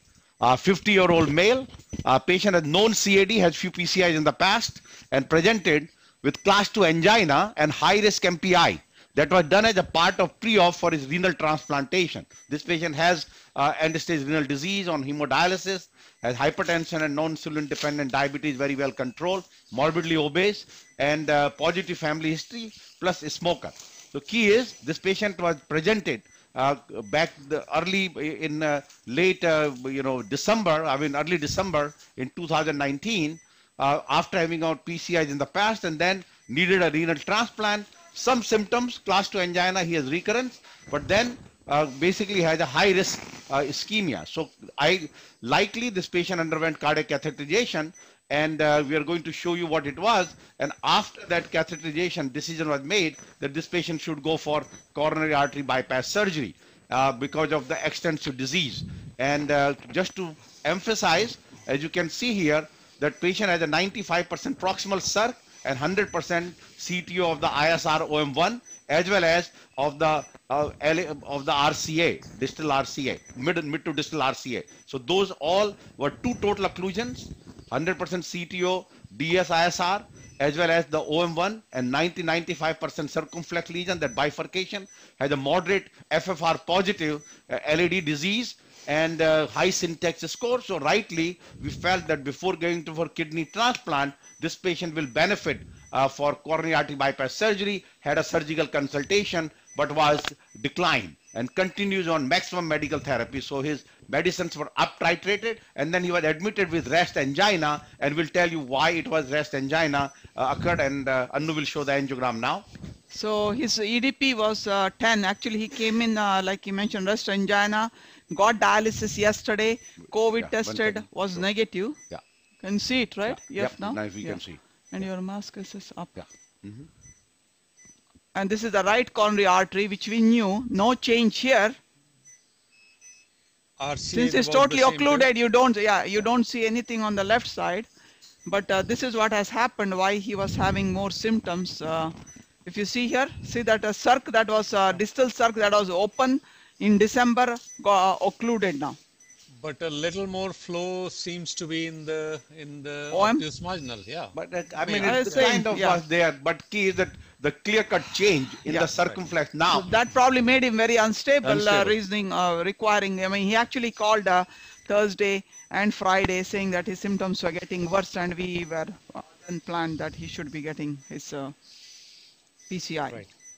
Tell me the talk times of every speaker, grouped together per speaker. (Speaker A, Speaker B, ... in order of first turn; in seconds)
Speaker A: 0.4-112.6, 120.4-121.4, 123.3-124.6, 126.2-126.9, 154.3-159.9, 161.4-162.0
Speaker B: 113.1-122.0, 122.6-124.4, 124.9-126.1, 128.3-131.8, 134.1-137.9, 138.4-142.1, 142.7-149.0, 153.1-153.4, 154.9-156.0, 159.7-171.5, 172.7-173.2
Speaker C: 133.8-135.3, 149.5-155.5